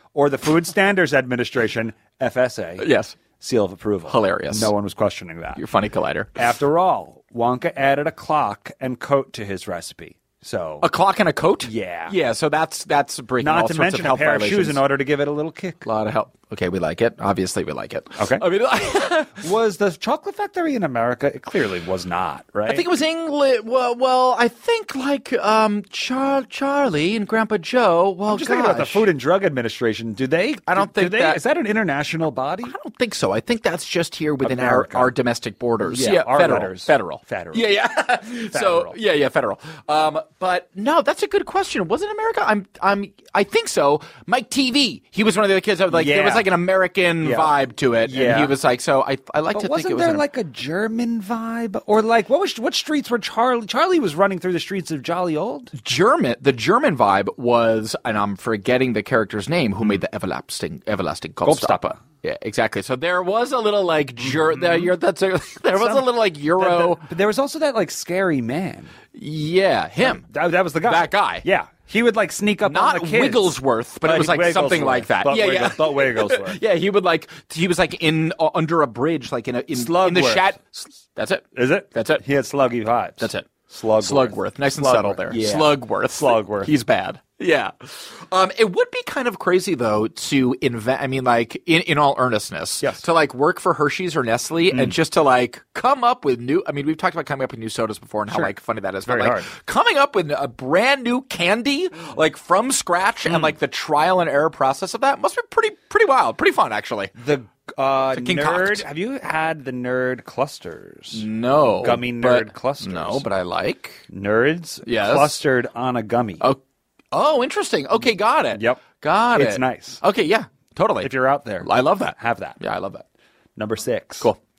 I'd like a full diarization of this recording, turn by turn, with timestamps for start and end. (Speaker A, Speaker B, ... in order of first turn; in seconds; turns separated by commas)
Speaker A: 0.1-2.9, Speaker B: 2.8-3.2, Speaker A: 3.4-5.6, Speaker B: 4.1-4.7, Speaker B: 5.6-6.3, Speaker A: 6.4-10.9, Speaker B: 10.8-14.8, Speaker A: 11.6-12.2, Speaker A: 13.4-15.9, Speaker B: 15.8-19.4, Speaker A: 18.2-18.4, Speaker A: 19.4-22.9, Speaker B: 22.7-29.1, Speaker A: 28.3-32.8, Speaker B: 30.7-31.4, Speaker B: 32.6-50.2, Speaker A: 34.4-35.1, Speaker A: 35.9-37.7, Speaker A: 38.5-39.0, Speaker A: 45.9-46.5, Speaker A: 47.2-47.5, Speaker A: 48.0-48.5, Speaker A: 49.5-55.7, Speaker B: 55.7-67.0, Speaker A: 61.4-62.0, Speaker A: 64.6-64.9, Speaker A: 65.8-68.9, Speaker B: 69.1-70.2, Speaker A: 70.0-76.6, Speaker B: 70.8-71.5, Speaker B: 72.7-82.2, Speaker A: 79.8-80.5, Speaker A: 81.5-86.7, Speaker B: 83.2-83.5, Speaker B: 84.0-107.1, Speaker A: 99.1-99.5, Speaker A: 107.2-111.2, Speaker B: 108.1-108.9, Speaker B: 111.1-114.0, Speaker A: 111.8-113.2, Speaker A: 114.1-116.5, Speaker B: 114.9-115.4, Speaker B: 117.1-121.1, Speaker A: 118.5-118.8, Speaker A: 119.3-120.0, Speaker A: 121.0-122.6, Speaker B: 121.6-123.0, Speaker A: 123.6-124.3